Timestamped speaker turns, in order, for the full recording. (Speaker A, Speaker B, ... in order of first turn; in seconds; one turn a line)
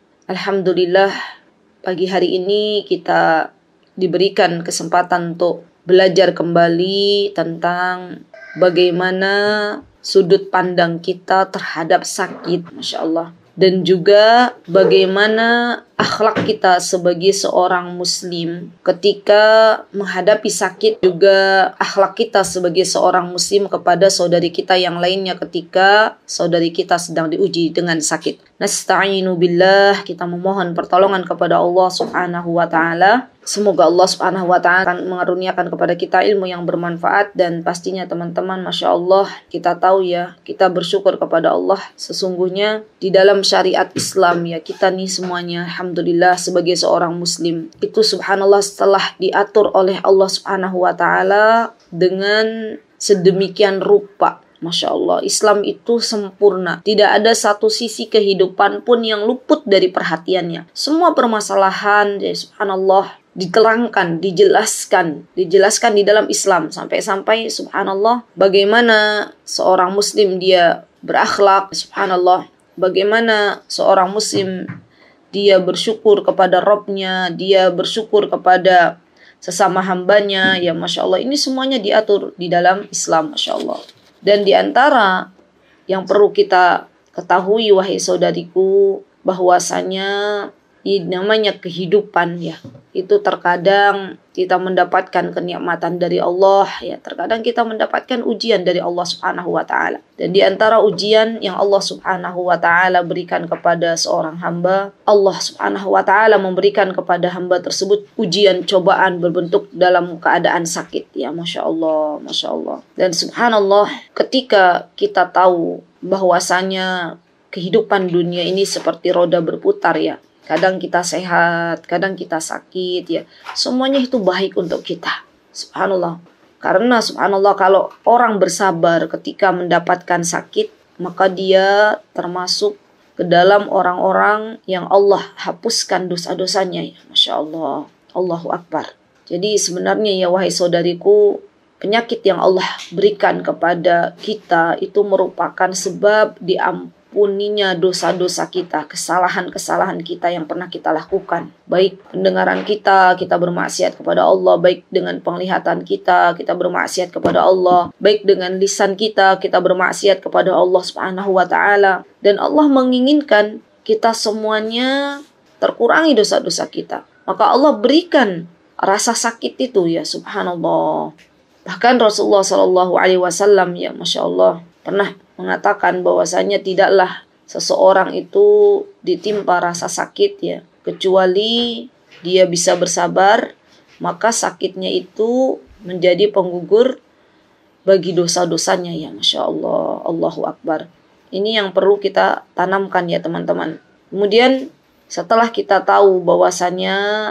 Speaker A: 0.3-1.1
Speaker A: 1.8-3.2
Speaker A: 4.0-8.0
Speaker A: 8.6-74.6
Speaker A: 75.3-85.2
Speaker A: 85.9-116.9
Speaker A: 117.5-141.2
Speaker A: 141.8-164.9
Speaker A: 165.6-171.1
Speaker A: 171.7-183.5
Speaker A: 184.0-186.9
Speaker A: 187.9-197.0